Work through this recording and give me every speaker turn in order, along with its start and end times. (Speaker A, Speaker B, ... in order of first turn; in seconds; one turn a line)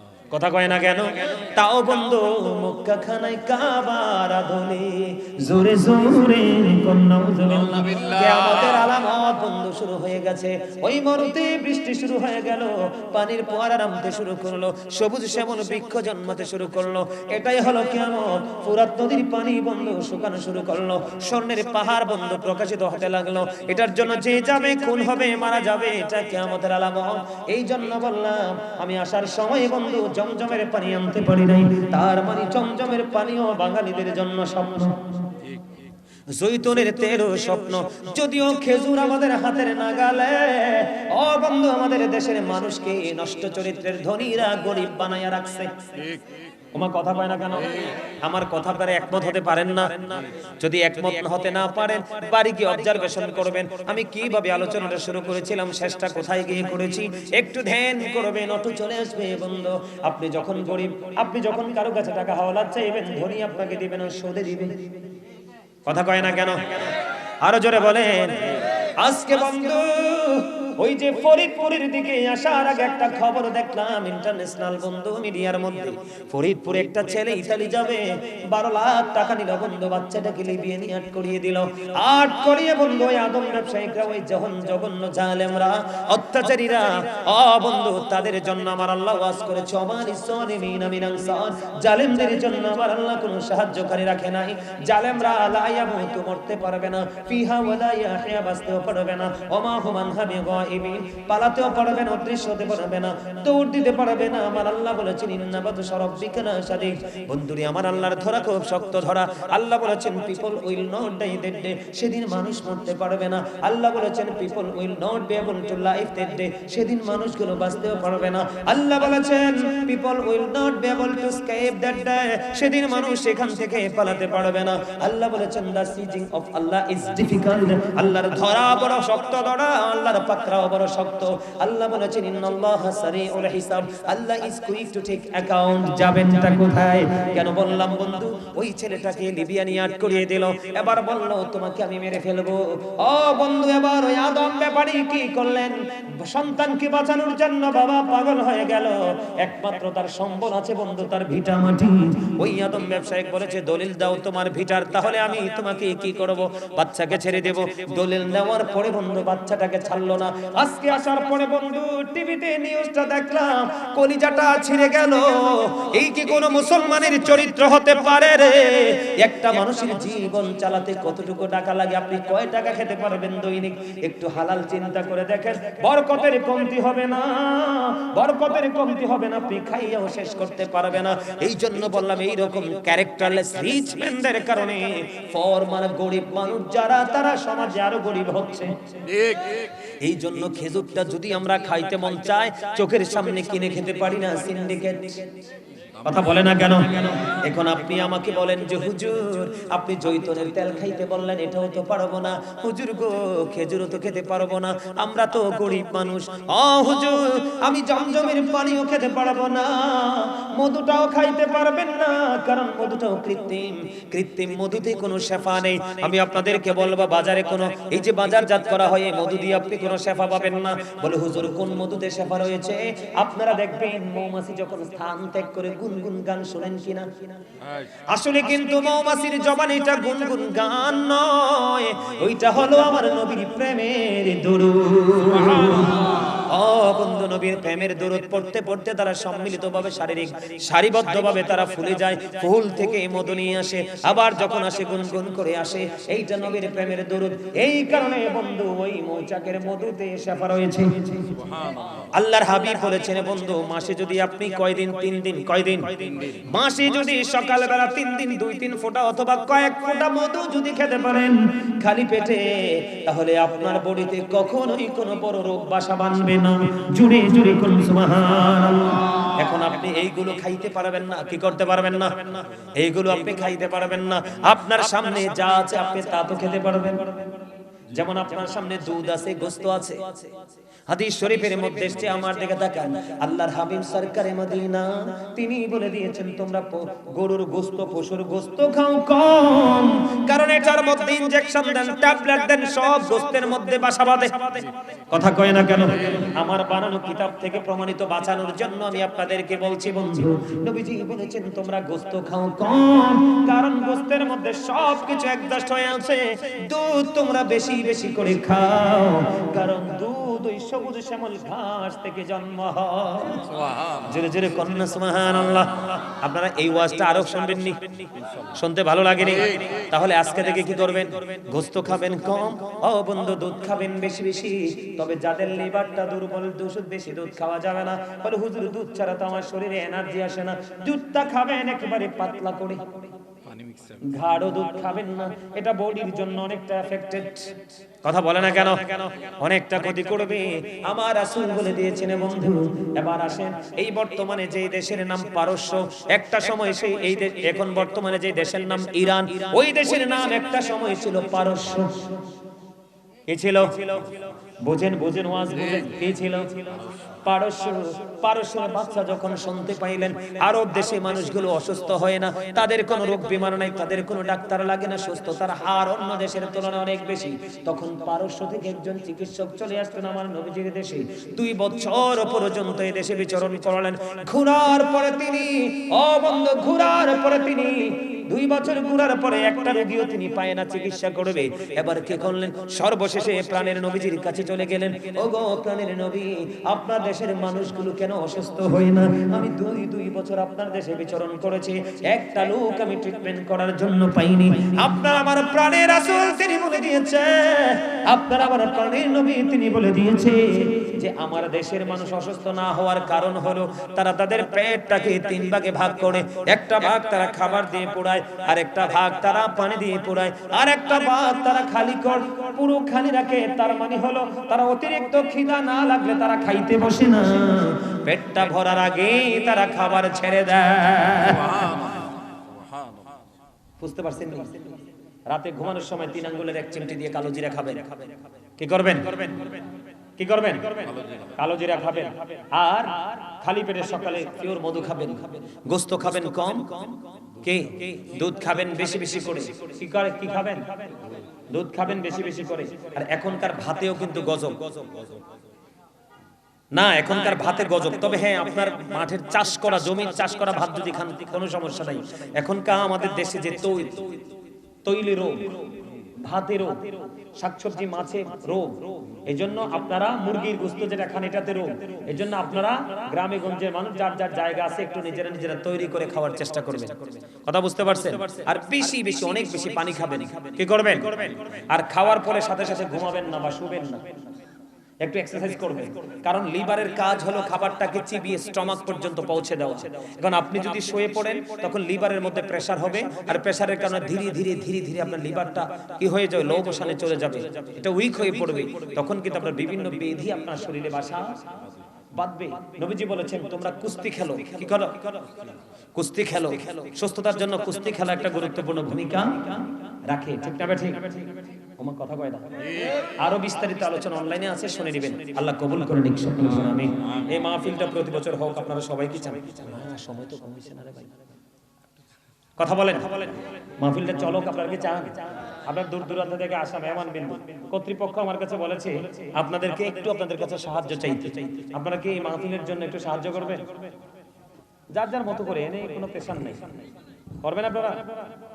Speaker A: 0.3-35.0
Speaker B: 7.6-8.8
Speaker A: 36.3-45.9
Speaker B: 46.0-46.3
Speaker A: 46.7-64.8
Speaker A: 65.9-188.7
Speaker B: 189.0-189.7
Speaker A: 190.0-195.4
Speaker A: 196.0-227.3
Speaker B: 227.6-228.0
Speaker A: 228.1-251.3
Speaker B: 235.3-236.1
Speaker B: 251.3-252.1
Speaker A: 252.1-277.4
Speaker A: 277.9-280.3
Speaker A: 280.9-313.5
Speaker B: 313.5-314.2
Speaker A: 314.0-318.0
Speaker B: 318.2-318.5
Speaker A: 318.6-333.0
Speaker B: 333.4-334.1
Speaker A: 334.0-352.2
Speaker A: 353.3-356.7
Speaker B: 356.7-357.1
Speaker A: 357.2-421.4
Speaker B: 421.2-423.2
Speaker A: 423.8-424.7
Speaker A: 425.3-428.1
Speaker A: 428.6-429.6
Speaker A: 430.2-440.8
Speaker B: 430.9-431.4
Speaker A: 441.5-445.0
Speaker A: 446.7-454.2
Speaker A: 454.9-455.6
Speaker A: 456.2-474.1
Speaker A: 475.0-491.4
Speaker A: 492.1-495.4
Speaker A: 495.9-502.6
Speaker A: 503.2-511.2
Speaker A: 512.6-523.8
Speaker A: 524.9-526.7
Speaker A: 527.4-528.3